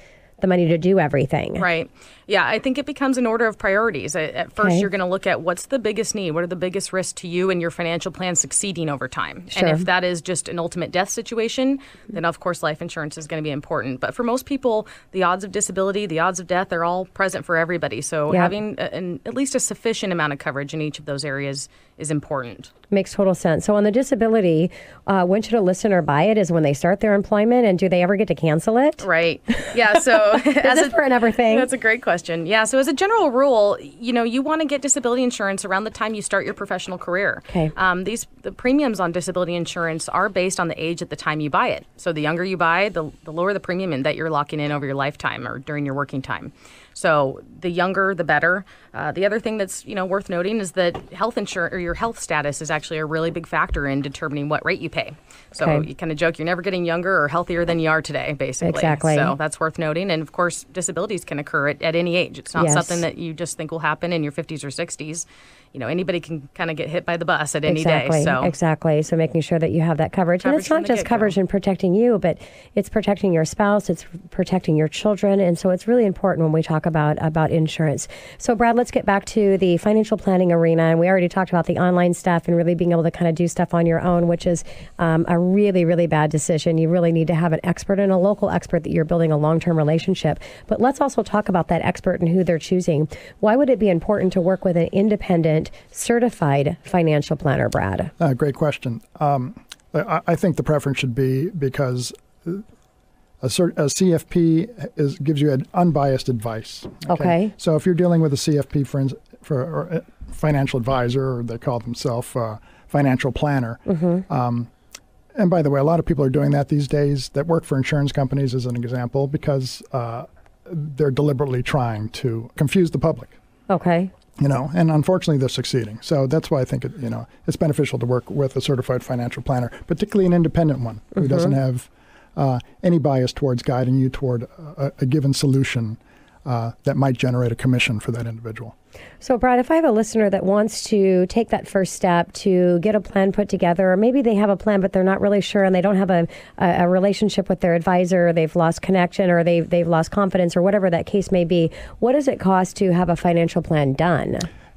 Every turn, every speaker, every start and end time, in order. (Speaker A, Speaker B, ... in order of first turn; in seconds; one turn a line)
Speaker A: 0.4-1.6
Speaker B: 1.6-22.7
Speaker A: 4.6-4.8
Speaker A: 9.5-9.8
Speaker A: 22.9-29.0
Speaker B: 29.0-68.5
Speaker A: 30.4-31.7
Speaker A: 55.6-55.8
Speaker A: 58.6-59.3
Speaker A: 62.5-63.0
Speaker A: 67.7-98.1
Speaker B: 70.4-71.3
Speaker C: 98.2-102.6
Speaker C: 103.4-114.7
Speaker A: 107.1-107.5
Speaker A: 113.9-114.2
Speaker C: 115.3-123.4
Speaker A: 123.7-124.1
Speaker C: 124.4-138.7
Speaker A: 131.2-131.5
Speaker A: 139.2-154.5